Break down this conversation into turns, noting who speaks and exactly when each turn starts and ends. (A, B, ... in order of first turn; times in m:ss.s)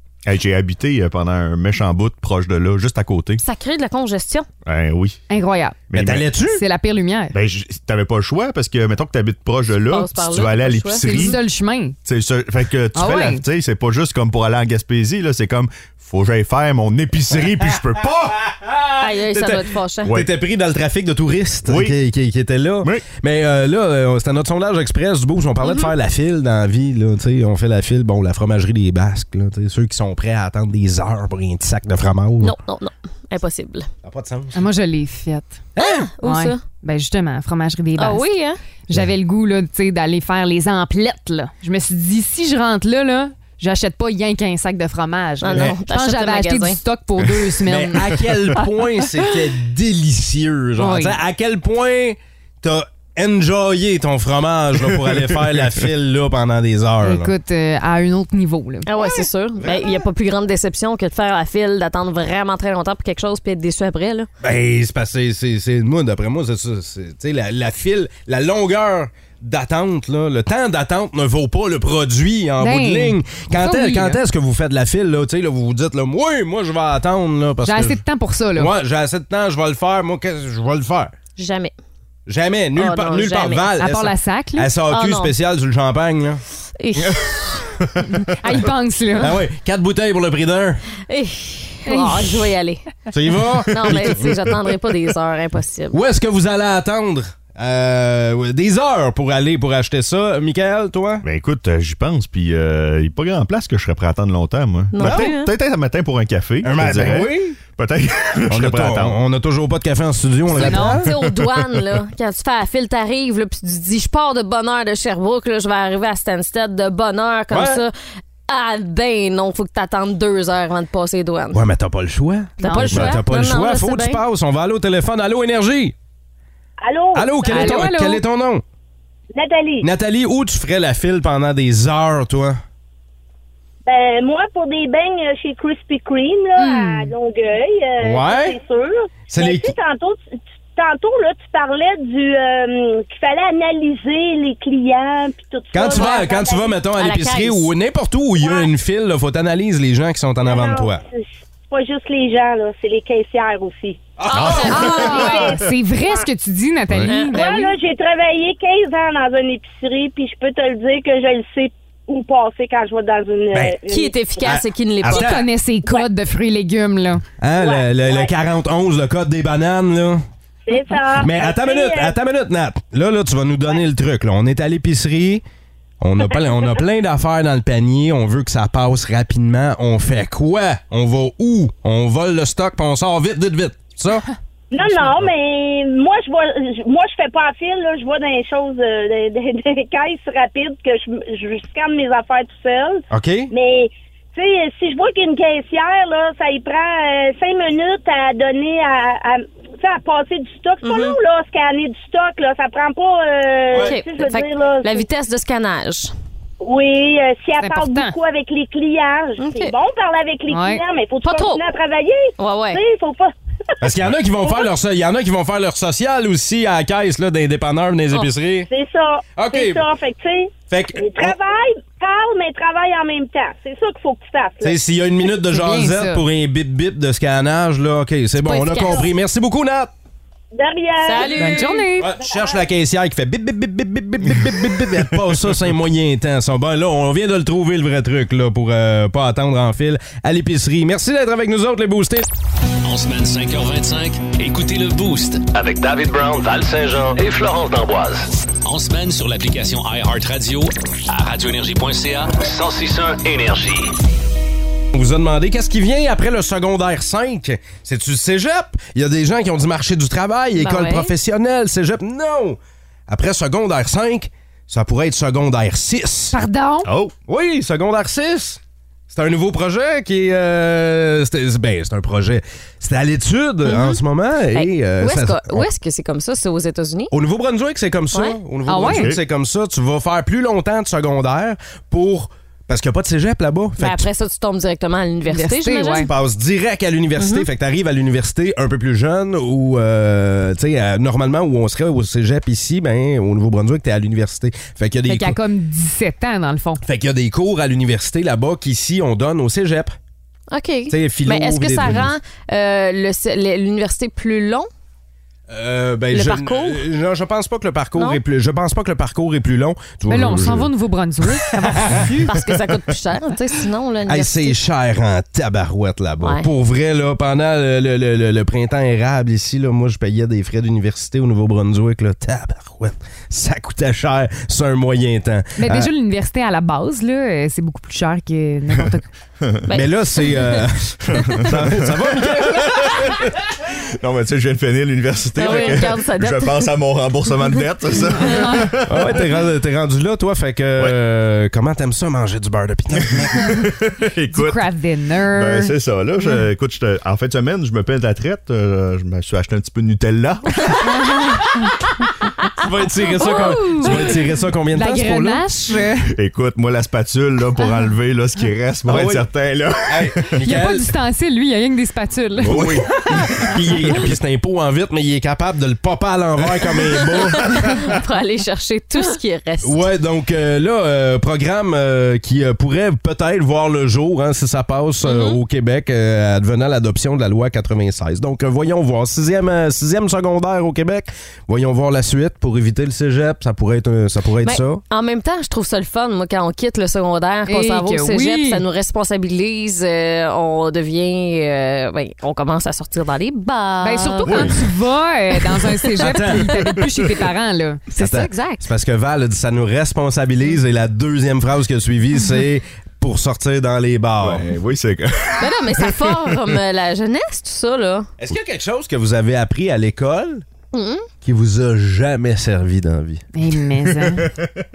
0:00.2-0:03.4 A
0:03.4-0:04.5 B
0:04.6-0:05.2 A
0:05.3-0:05.8 C
0:05.9-0:06.3 A
0:05.9-0:06.6 D
0:06.5-0:07.3 C
0:07.3-0:11.4 A
0:09.9-0:11.4 B
0:11.0-0:12.0 C
0:12.0-0:18.3 A
0:12.9-0:13.4 C
0:18.2-0:32.6 D
0:19.0-0:20.1 B
0:20.0-0:20.3 A
0:21.7-0:22.0 A
0:32.4-0:33.9 B
0:34.0-0:34.6 D
0:34.5-0:35.6 C
0:35.8-0:36.0 D
0:35.8-0:36.6 B
0:36.2-0:38.3 C
0:38.0-0:38.6 B
0:38.9-0:48.7 C
0:45.4-0:46.8 B
0:47.7-0:57.3 D
0:50.8-0:51.2 C
0:57.0-0:58.9 C
0:58.8-1:04.3 B
0:59.0-1:00.1 D
1:04.4-1:18.0 D
1:12.6-1:14.2 C
1:17.6-1:18.7 C
1:18.5-1:21.1 D
1:21.4-1:21.7 B
1:22.3-1:26.4 D
1:22.8-1:23.7 B
1:23.8-1:24.7 C
1:24.9-1:25.3 B
1:26.8-1:27.7 B
1:28.4-1:29.3 C
1:29.2-1:30.8 D
1:31.1-1:32.8 B
1:31.8-1:32.5 C
1:33.1-1:34.6 D
1:33.7-1:36.0 B
1:35.9-1:41.2 D
1:41.2-1:49.2 A
1:44.9-1:45.5 B
1:45.0-1:45.3 D
1:46.6-1:47.6 D
1:48.5-1:51.0 D
1:50.6-1:51.0 C
1:50.7-1:57.9 B
1:51.0-1:51.5 A
1:57.5-1:57.8 D
1:58.5-2:01.6 B
2:01.5-2:05.9 D
2:02.6-2:04.2 B
2:02.6-2:02.9 C
2:02.9-2:03.2 A
2:06.8-2:07.9 E
2:07.1-2:08.6 D
2:07.5-2:08.2 C
2:09.3-2:09.9 E
2:09.8-2:12.6 D
2:13.8-2:26.8 E
2:16.6-2:16.9 C
2:18.0-2:18.6 D
2:19.3-2:19.7 D
2:25.7-2:31.0 D
2:25.9-2:26.3 B
2:27.0-2:27.7 B
2:28.4-2:28.7 E
2:30.4-2:34.1 E
2:34.2-2:35.3 D
2:34.3-2:34.6 A
2:34.3-2:35.4 B
2:34.6-2:37.7 C
2:34.8-2:36.2 E
2:37.1-2:37.4 B
2:37.3-2:44.1 E
2:43.5-2:43.8 D
2:43.9-2:45.4 B
2:44.4-2:45.4 D
2:45.1-2:47.2 C
2:47.4-2:50.2 D
2:47.6-2:48.3 E
2:50.7-2:52.1 E
2:51.1-2:55.4 D
2:56.0-3:04.2 D
2:56.3-2:56.8 E
3:04.7-3:25.1 E
3:13.1-3:13.5 D
3:20.8-3:21.2 B
3:23.7-3:26.1 B
3:26.6-3:33.3 E
3:27.6-3:28.1 C
3:29.4-3:29.7 B
3:30.5-3:30.8 C
3:31.2-3:31.6 B
3:32.4-3:32.8 B
3:33.8-3:38.7 D
3:38.7-3:44.8 E
3:39.4-3:39.8 D
3:40.7-3:41.4 D
3:44.6-3:49.9 D
3:45.5-3:46.2 C
3:48.4-3:49.1 B
3:50.5-3:51.5 E
3:51.0-3:51.8 B
3:51.2-3:52.1 C
3:52.0-4:02.2 D
3:52.2-3:52.6 E
4:02.8-4:05.4 F
4:05.5-4:08.3 G
4:08.6-4:12.3 F
4:12.4-4:13.9 G
4:14.9-4:26.4 D
4:20.6-4:21.1 B
4:26.3-4:26.9 C
4:26.8-4:27.1 A
4:27.3-4:35.7 D
4:33.6-4:34.0 B
4:34.5-4:37.1 B
4:37.1-4:44.0 D
4:38.1-4:38.4 B
4:38.7-4:39.1 C
4:38.8-4:39.2 A
4:43.8-4:46.1 B
4:45.3-4:46.1 C
4:46.0-4:55.4 D
4:47.2-4:47.5 B
4:55.1-4:56.8 C
4:56.8-5:00.0 D
5:00.5-5:04.7 B
5:00.9-5:02.0 D
5:05.5-5:10.7 D
5:06.1-5:06.8 B
5:08.0-5:08.2 B
5:10.1-5:12.3 C
5:11.7-5:12.2 D
5:12.3-5:14.6 B
5:14.1-5:25.9 D
5:16.2-5:16.5 B
5:25.6-5:29.1 C
5:29.4-5:29.7 A
5:29.7-5:30.6 B
5:29.7-5:33.2 D
5:31.3-5:33.2 A
5:34.0-5:39.2 A
5:35.4-5:36.8 B
5:35.4-5:35.8 D
5:38.2-5:38.6 C
5:38.8-5:43.6 D
5:43.6-5:44.6 A
5:44.3-5:45.7 C
5:45.3-5:50.8 A
5:52.6-5:55.4 D
5:53.2-5:54.1 B
5:53.6-5:53.9 C
5:54.8-5:56.0 C
5:56.1-6:00.3 A
5:58.8-5:59.2 D
5:59.9-6:00.9 D
6:00.4-6:02.8 C
6:02.4-6:04.0 A
6:02.4-6:07.6 D
6:07.1-6:07.9 A
6:07.3-6:09.8 B
6:09.6-6:24.8 D
6:15.0-6:15.4 B
6:24.4-6:34.5 B
6:27.5-6:28.6 C
6:33.8-6:37.8 C
6:34.2-6:34.6 A
6:36.0-6:36.6 D
6:37.9-6:38.6 B
6:38.0-6:44.5 D
6:44.2-6:45.7 A
6:45.4-6:48.1 B
6:48.2-6:50.4 D
6:50.7-6:51.1 B
6:51.2-6:53.2 D
6:53.3-6:54.3 C
6:54.0-6:54.4 A